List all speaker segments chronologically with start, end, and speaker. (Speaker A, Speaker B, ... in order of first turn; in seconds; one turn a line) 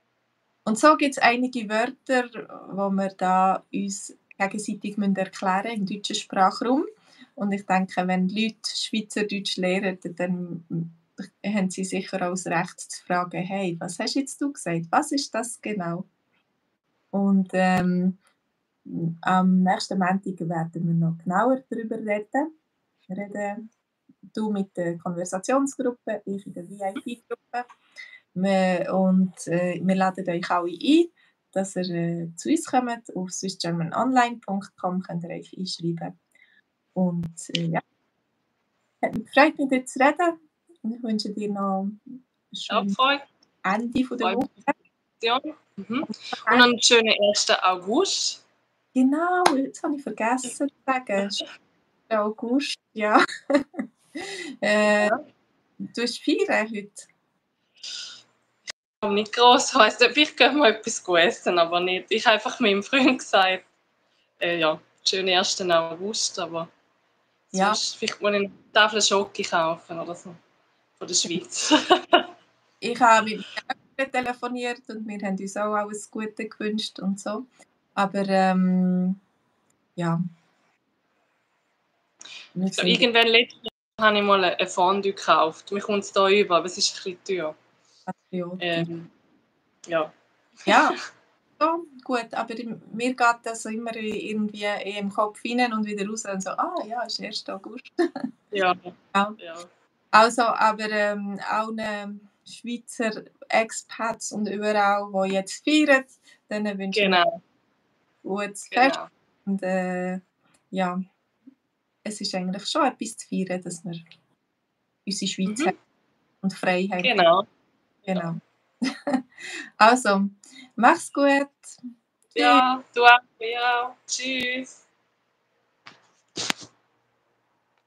Speaker A: 0.7-16.1
Speaker A: 17.1-18.2
Speaker A: 18.9-22.5
Speaker A: 23.1-23.6
Speaker A: 24.3-27.6
Speaker A: 28.4-36.1
Speaker A: 36.9-37.8
Speaker A: 39.0-42.9
Speaker B: 42.7-43.3
Speaker A: 43.6-44.7
Speaker B: 44.2-44.5
Speaker B: 45.2-48.4
Speaker A: 46.3-46.6
Speaker A: 48.9-51.4
Speaker A: 52.1-55.1
Speaker B: 54.9-55.2
Speaker A: 55.9-57.1
Speaker B: 59.0-63.6
Speaker B: 64.4-66.7
Speaker B: 67.5-70.4
Speaker A: 67.5-67.8
Speaker B: 71.0-72.3
Speaker A: 72.8-79.2
Speaker A: 82.5-83.1
Speaker B: 82.7-87.5
Speaker A: 88.1-88.9
Speaker B: 88.6-89.1
Speaker B: 89.9-90.1
Speaker B: 90.7-90.9
Speaker A: 90.7-90.9
Speaker A: 91.6-97.9
Speaker B: 98.5-99.7
Speaker A: 100.1-107.2
Speaker B: 106.9-107.4
Speaker A: 108.2-111.0
Speaker B: 108.7-109.1
Speaker A: 112.0-114.0
Speaker A: 115.0-115.7
Speaker B: 115.5-115.7
Speaker A: 116.4-117.1
Speaker B: 117.0-117.5
Speaker A: 118.1-119.2
Speaker A: 119.8-121.8
Speaker A: 122.3-122.6
Speaker B: 122.3-124.8